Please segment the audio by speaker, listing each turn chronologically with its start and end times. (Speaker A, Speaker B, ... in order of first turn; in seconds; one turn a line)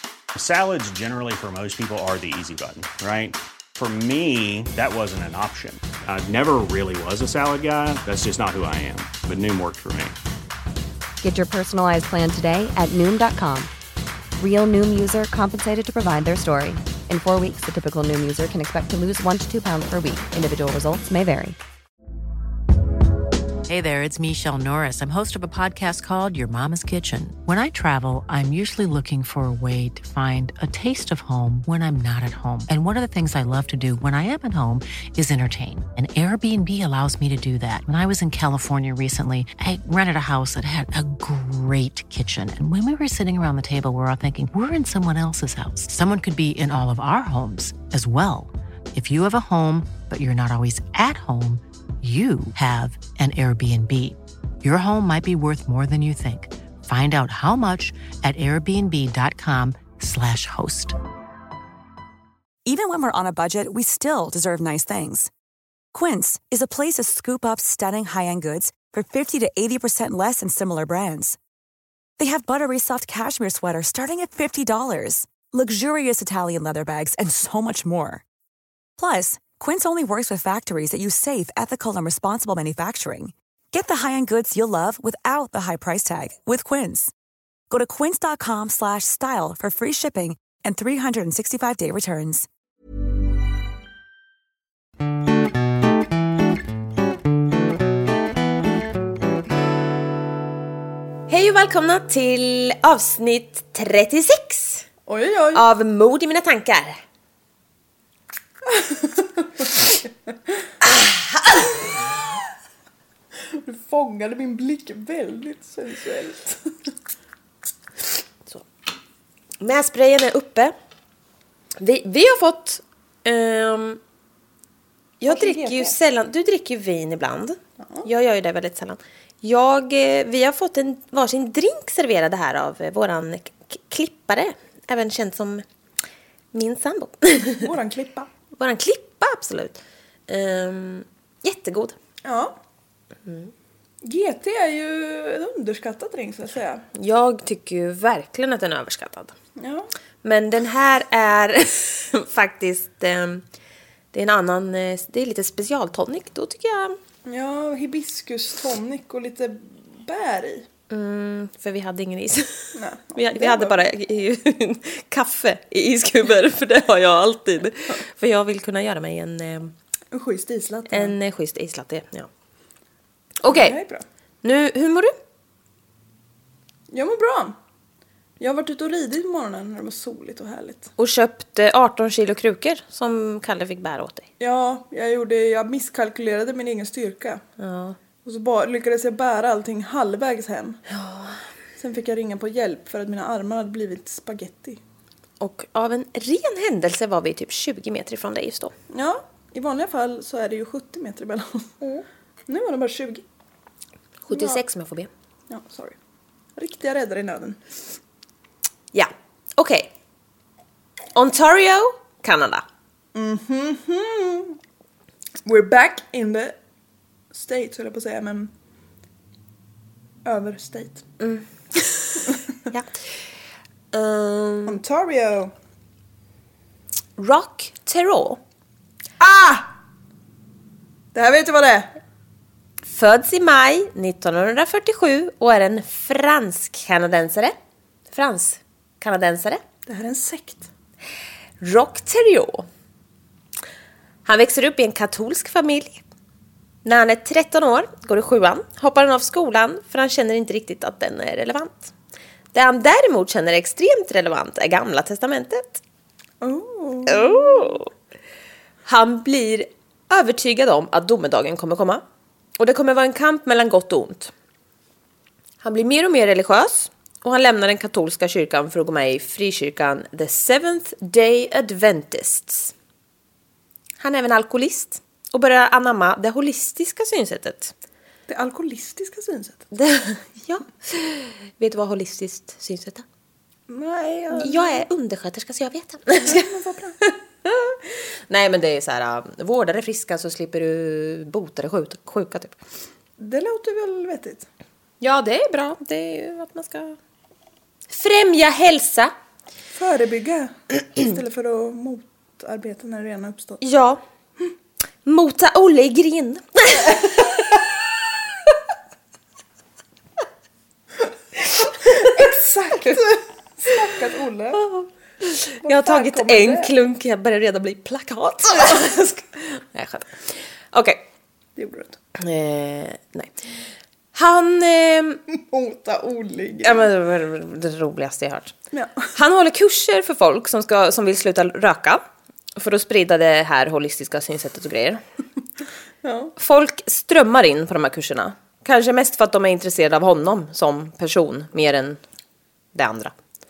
Speaker A: 0.3-10.2
Speaker B: 11.2-13.7
Speaker B: 14.4-21.6
Speaker C: 23.7-61.0
Speaker D: 62.6-65.3
Speaker D: 65.9-71.4
Speaker D: 72.2-78.2
Speaker D: 79.0-87.1
Speaker D: 87.7-92.5
Speaker E: 101.3-104.8
Speaker F: 105.1-105.7
Speaker E: 105.5-107.0
Speaker F: 108.7-110.0
Speaker F: 113.5-116.6
Speaker E: 119.6-120.7
Speaker E: 121.8-124.0
Speaker E: 125.2-135.6
Speaker F: 125.3-125.9
Speaker F: 127.8-128.1
Speaker E: 136.5-137.7
Speaker F: 137.6-138.3
Speaker E: 138.6-141.9
Speaker F: 142.2-142.6
Speaker E: 143.2-143.5
Speaker F: 144.0-146.8
Speaker E: 146.9-149.3
Speaker F: 149.6-149.9
Speaker E: 150.2-153.4
Speaker E: 154.1-157.0
Speaker F: 157.2-160.7
Speaker E: 160.9-169.7
Speaker F: 162.7-163.8
Speaker F: 170.1-171.1
Speaker E: 170.9-172.3
Speaker E: 173.4-173.8
Speaker F: 173.4-174.0
Speaker E: 174.4-175.1
Speaker F: 176.9-177.6
Speaker F: 178.4-180.9
Speaker E: 181.0-184.3
Speaker F: 184.4-187.4
Speaker E: 187.6-188.0
Speaker F: 188.2-190.8
Speaker E: 190.9-191.4
Speaker F: 191.8-194.8
Speaker E: 195.4-198.7
Speaker F: 198.9-203.2
Speaker E: 204.2-205.1
Speaker F: 204.3-204.6
Speaker F: 205.5-205.9
Speaker F: 206.6-207.6
Speaker E: 208.9-209.9
Speaker E: 211.1-212.6
Speaker F: 213.1-214.6
Speaker F: 215.4-216.6
Speaker F: 217.3-218.5
Speaker F: 220.2-221.0
Speaker E: 221.2-222.9
Speaker E: 223.9-224.8
Speaker F: 224.7-225.5
Speaker E: 227.2-228.4
Speaker F: 229.2-229.7
Speaker F: 231.1-231.9
Speaker E: 232.8-237.5
Speaker E: 238.1-239.6
Speaker F: 239.8-240.7
Speaker E: 241.6-242.7
Speaker E: 244.2-246.0
Speaker E: 246.8-251.9
Speaker E: 252.5-255.8
Speaker F: 256.4-257.8
Speaker E: 257.1-257.9
Speaker E: 258.9-262.0
Speaker E: 262.6-264.3
Speaker E: 265.6-272.7
Speaker E: 274.0-277.7
Speaker F: 278.3-279.6
Speaker E: 279.7-283.0
Speaker F: 283.7-284.8
Speaker E: 284.3-286.4
Speaker F: 286.2-287.0
Speaker E: 287.0-292.6
Speaker F: 293.2-294.5
Speaker E: 295.0-297.0
Speaker E: 297.9-299.1
Speaker F: 299.7-303.6
Speaker E: 303.6-304.0
Speaker E: 305.0-307.4
Speaker F: 311.7-314.7
Speaker E: 314.6-321.0
Speaker F: 315.6-316.7
Speaker F: 321.6-322.0
Speaker E: 322.1-323.4
Speaker E: 324.1-325.2
Speaker F: 325.3-326.9
Speaker E: 326.6-328.5
Speaker F: 328.7-329.1
Speaker E: 329.1-332.0
Speaker E: 332.6-335.0
Speaker F: 336.0-336.3
Speaker E: 336.4-342.0
Speaker E: 342.7-343.1